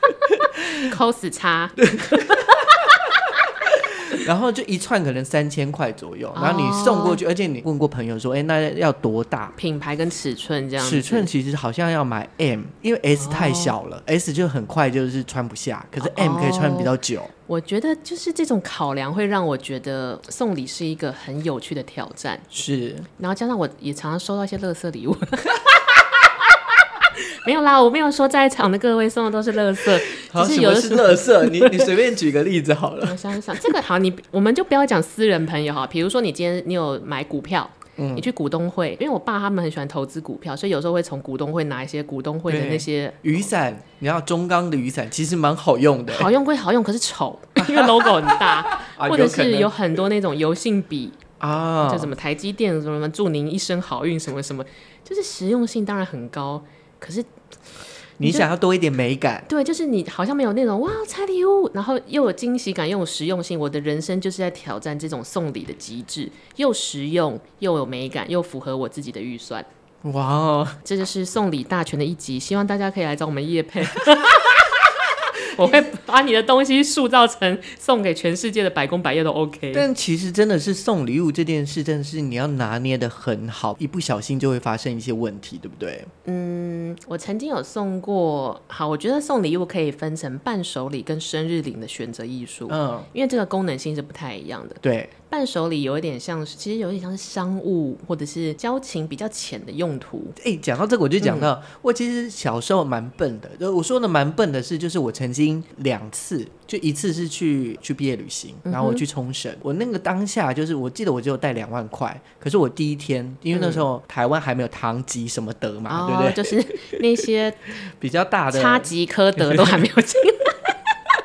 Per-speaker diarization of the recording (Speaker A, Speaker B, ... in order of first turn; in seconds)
Speaker A: 0.3-0.9, 1.8-9.6, 10.8-17.3, 22.5-23.1, 30.1-33.7, 38.0-38.3, 42.5-46.3, 47.6-49.8, 51.4-52.1, 58.2-59.5, 70.0-70.8, 74.0-74.7, 75.6-75.9, 79.7-86.1, 92.7-93.1, 94.8-95.1, 100.4-117.0, 118.0-119.8
Speaker B: 0.8-2.8, 6.3-7.2, 9.6-11.3, 13.2-13.7, 16.0-16.9, 17.5-22.5, 23.2-31.9, 33.0-43.5, 46.1-51.2, 51.8-57.3, 58.2-58.5, 59.5-69.7, 70.8-79.9, 86.2-100.4, 101.2-101.5, 108.7-109.0, 113.5-113.8, 115.9-117.7, 118.5-120.8